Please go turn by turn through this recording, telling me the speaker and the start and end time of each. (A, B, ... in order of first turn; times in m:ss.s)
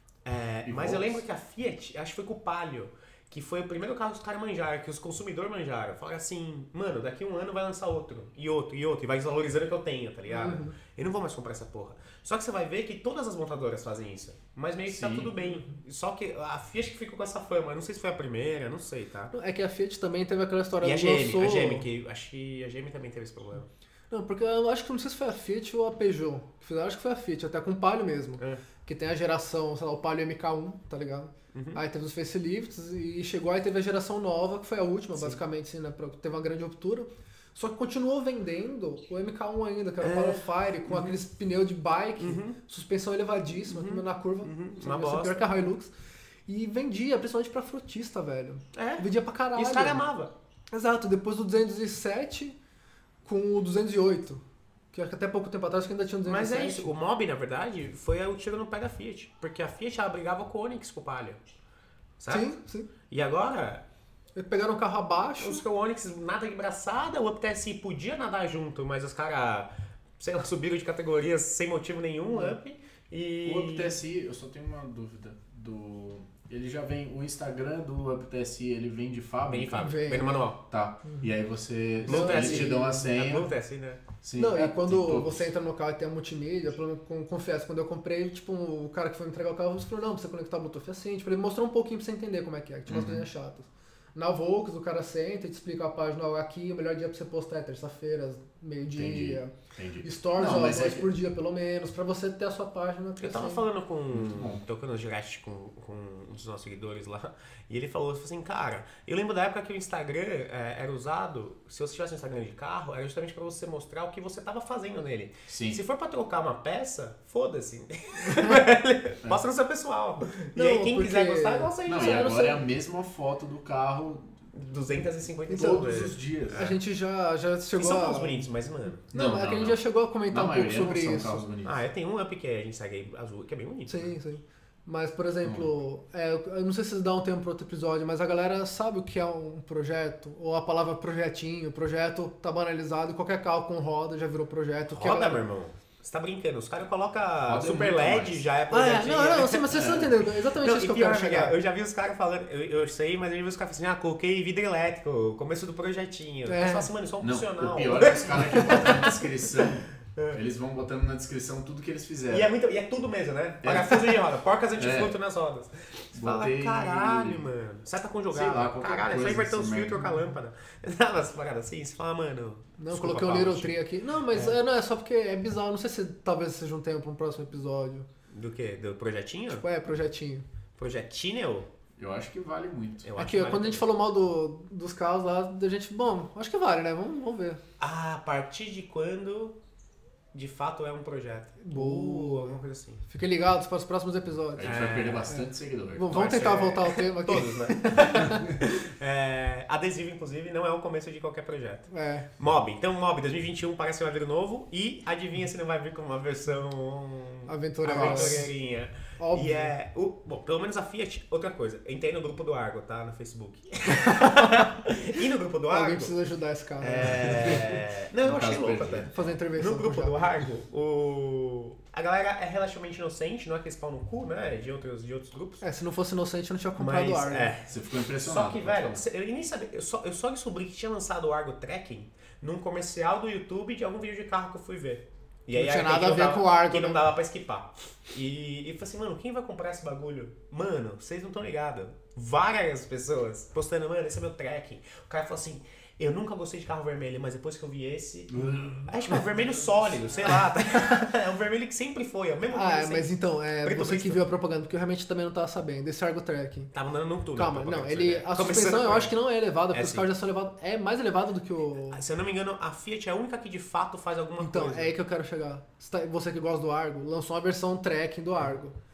0:00.2-0:19.3 A
0:00.6-0:01.2 B
0:10.3-0:10.8 C
0:14.9-0:15.3 B
0:19.3-0:21.9 C
0:20.8-0:23.7 A
0:24.1-0:45.9 C
0:31.5-0:31.8 A
0:40.0-0:41.2 A
0:42.2-0:42.6 A
0:43.6-0:45.7 A
0:46.5-0:50.0 C
0:48.7-0:50.3 A
0:50.7-0:52.6 C
0:53.2-0:56.9 C
0:56.2-1:01.4 A
1:02.2-1:02.5 A
1:02.3-1:02.9 C
1:03.1-1:03.8 A
1:04.3-1:05.6 C
1:05.4-1:13.9 A
1:12.3-1:12.6 C
1:13.4-1:19.9 B
1:19.5-1:20.6 A
1:19.8-1:20.4 C
1:20.7-1:23.5 B
1:21.0-1:21.3 C
1:22.0-1:23.1 C
1:22.0-1:24.0 A
1:24.2-1:25.5 B
1:24.4-1:39.5 C
1:32.9-1:33.2 B
1:38.9-1:41.1 B
1:40.0-1:43.6 C
1:43.2-2:02.6 A
1:44.1-1:44.6 B
1:55.5-1:55.8 B
1:58.2-1:58.5 C
2:00.5-2:02.5 C
2:01.8-2:04.3 B
2:04.5-2:06.8 A
2:05.5-2:06.6 B
2:06.5-2:08.4 C
2:07.8-2:09.1 A
2:09.1-2:11.4 C
2:09.1-2:11.8 B
2:11.6-2:14.1 A
2:13.9-2:25.4 C
2:15.4-2:15.7 B
2:24.9-2:39.3 A
2:27.4-2:28.4 B
2:28.7-2:31.6 C
2:29.7-2:30.1 B
2:36.4-2:36.9 C
2:37.2-2:42.5 B
2:38.4-2:38.9 C
2:40.1-2:40.4 A
2:42.3-2:53.8 A
2:43.6-2:44.2 B
2:44.8-2:45.1 B
2:46.1-2:47.4 B
2:48.3-2:50.0 B
2:52.8-2:58.1 C
2:54.3-2:54.6 A
2:58.3-2:59.6 A
2:59.5-3:00.4 C
3:00.8-3:01.7 A
3:02.0-3:03.1 B
3:03.0-3:03.8 A
3:03.2-3:07.6 C
3:07.8-3:09.6 A
3:10.3-3:13.0 A
3:11.6-3:15.4 C
3:14.6-3:16.3 B
3:14.6-3:15.4 A
3:15.9-3:18.5 C
3:16.1-3:36.1 A
3:18.2-3:18.6 B
3:21.9-3:22.3 C
3:27.4-3:28.5 C
3:27.9-3:28.4 B
3:29.2-3:29.7 C
3:34.0-3:34.6 C
3:35.7-3:37.6 C
3:36.8-3:45.6 A
3:37.3-3:39.1 B
3:39.1-3:40.2 C
3:45.6-3:47.5 C
3:46.8-4:14.2 A
3:47.7-3:49.0 B
3:55.5-3:57.0 C
4:08.3-4:09.9 B
4:12.5-4:16.7 C
4:16.7-4:19.1 A
4:17.4-4:22.0 C
4:19.7-4:20.1 A
4:21.9-4:24.9 A
4:24.4-4:28.7 C